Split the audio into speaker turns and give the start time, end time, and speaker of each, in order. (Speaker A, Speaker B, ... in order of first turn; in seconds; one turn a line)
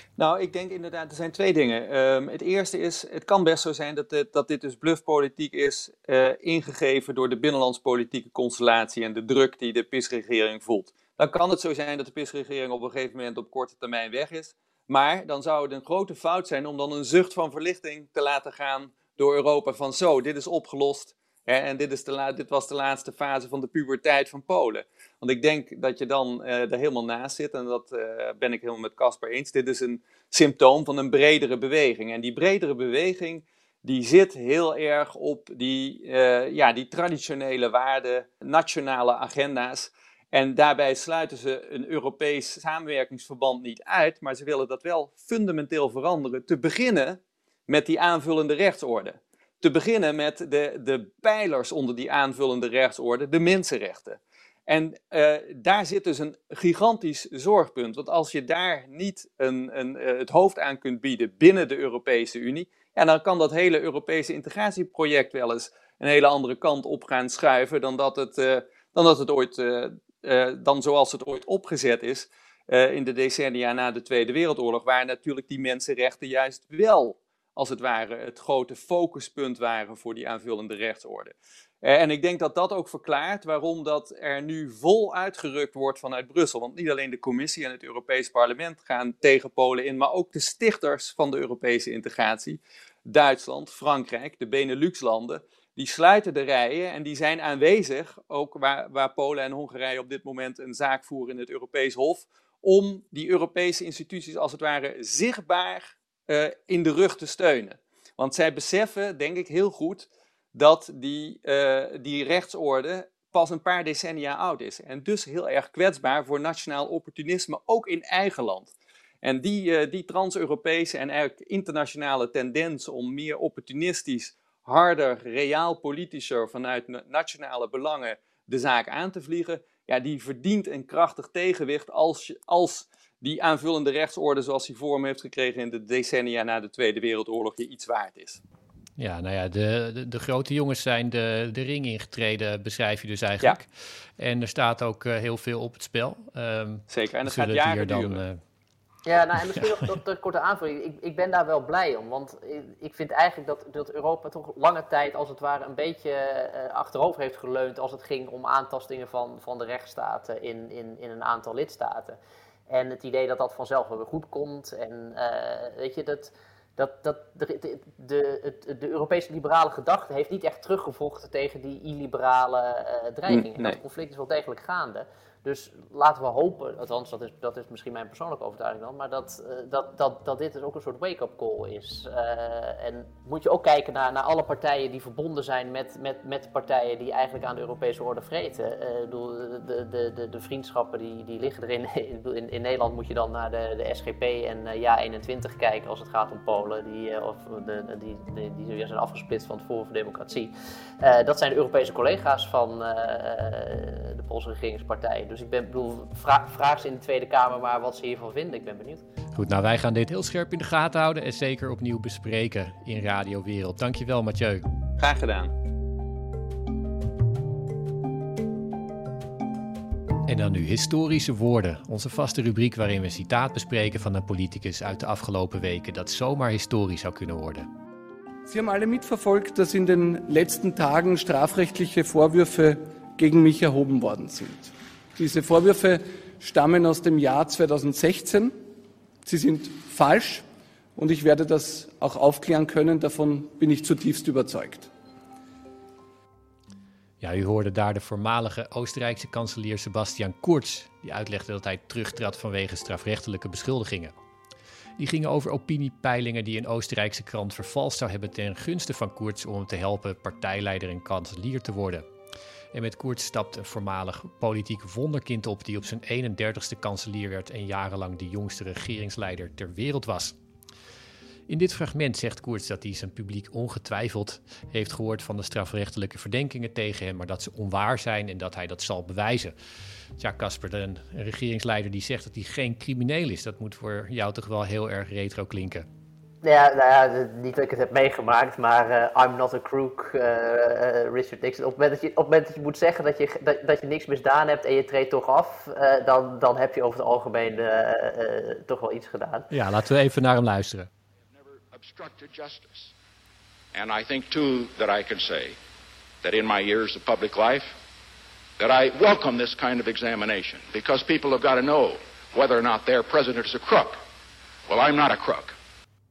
Speaker A: 0.2-138.4
Speaker B: 139.0-148.4
Speaker A: 146.9-148.2
Speaker C: 149.0-162.2
Speaker C: 162.7-209.0
Speaker A: 173.3-173.8
Speaker B: 209.3-214.6
Speaker A: 215.0-215.5
Speaker B: 220.2-227.7
Speaker D: 228.5-238.5
Speaker D: 239.2-244.9
Speaker B: 247.2-254.1
Speaker B: 255.0-262.1
Speaker B: 262.7-270.4
Speaker B: 271.5-279.5
Speaker B: 280.2-285.9
Speaker C: 286.4-299.5
Speaker B: 299.5-300.9
Speaker E: 301.3-302.9
Speaker E: 303.7-305.6
Speaker E: 306.2-307.7
Speaker E: 308.6-314.0
Speaker E: 314.7-315.5